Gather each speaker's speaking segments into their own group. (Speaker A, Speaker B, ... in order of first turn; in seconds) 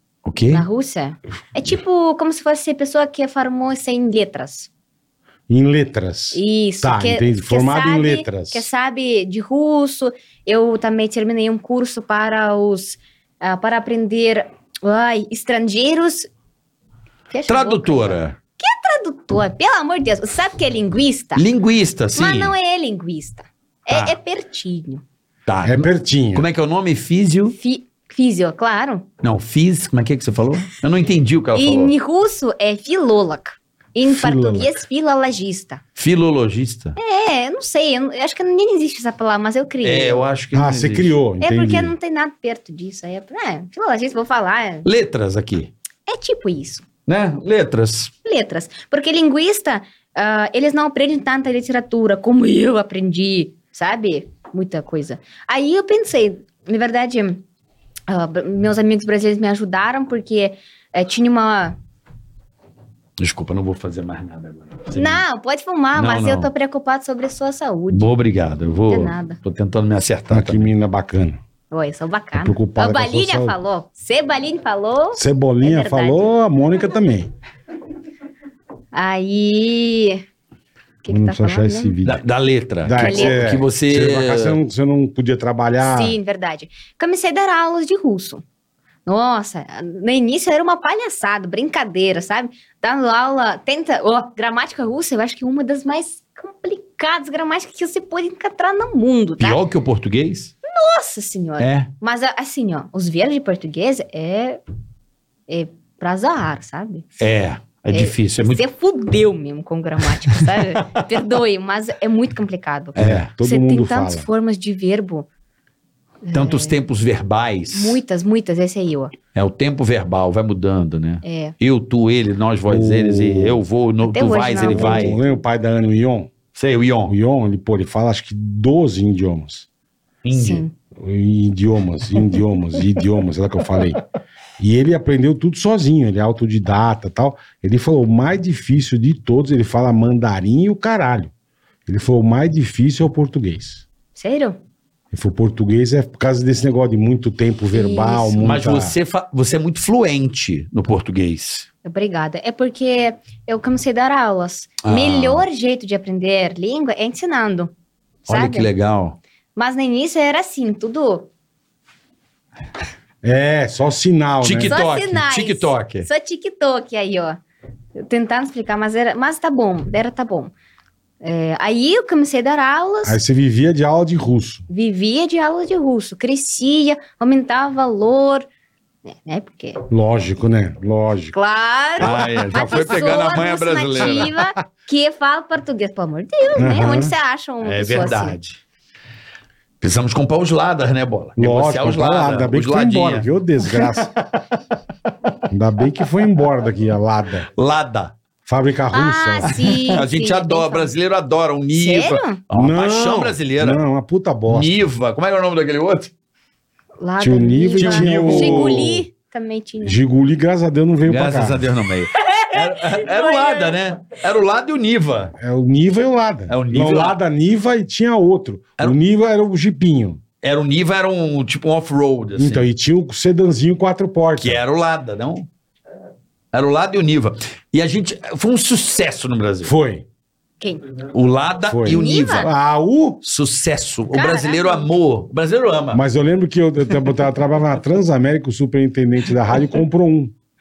Speaker A: 0.2-0.7, 17.5-18.4, 21.4-22.5, 23.9-24.2, 25.5-27.6, 29.2-31.9, 36.0-37.0, 39.8-41.1, 44.9-45.7, 47.1-48.1, 63.2-65.2, 66.0-66.5, 67.9-70.7, 82.0-84.6, 99.4-100.5, 101.6-101.9, 107.2-108.6, 113.0-113.3, 116.3-118.0, 119.3-125.2, 126.5-127.2, 130.2-130.6, 148.4-151.7, 154.8-155.4, 158.3-159.2, 164.4-166.1, 182.0-184.5, 187.6-188.6, 189.8-194.0, 197.6-198.2, 199.5-203.8, 204.5-206.1, 207.8-208.9, 211.1-215.3, 216.5-217.2, 220.4-222.7, 224.4-225.5, 226.5-229.7, 231.1-232.5, 233.2-236.0
Speaker B: 0.5-4.7, 6.3-16.3, 17.3-21.4, 22.1-25.0, 27.5-29.1, 31.5-35.8, 37.0-40.2, 41.4-44.9, 46.1-46.9, 48.2-57.4, 58.1-61.8, 64.9-68.1, 68.9-69.4, 71.7-76.3, 78.9-80.2, 81.0-82.0, 83.0-83.4, 85.8-88.4, 89.1-99.6, 100.7-104.6, 105.5-107.0, 107.9-115.3, 116.2-116.8, 117.7-119.1, 121.2-121.5, 124.0-125.2, 130.3-130.7, 144.2-144.6, 147.7-148.4, 151.8-157.7, 158.3-158.7, 159.6-161.3, 164.7-167.4, 167.9-170.5, 171.2-173.2, 174.7-178.5, 179.1-179.8, 181.3-188.4, 198.9-200.9, 201.7-202.4, 207.0-210.0, 212.2-213.8, 231.9-232.5, 234.1-234.9
Speaker C: 5.5-8.7, 25.6-26.5, 34.0-34.7, 40.5-42.0, 70.3-71.4, 72.4-73.6, 75.2-77.3, 81.1-82.2, 82.8-86.2, 113.0-114.3, 122.7-123.6, 124.6-126.3, 127.1-129.7, 131.0-134.0, 134.6-141.3, 141.9-143.8, 145.1-149.0, 163.2-164.8, 173.0-174.7, 179.9-181.3, 182.0-182.8, 186.6-187.1, 191.4-194.1, 195.5-197.5, 198.5-199.6, 202.5-204.8, 207.2-209.1, 209.8-211.7, 215.4-220.2, 222.4-224.6, 229.6-230.1, 231.7-233.2, 235.9-240.3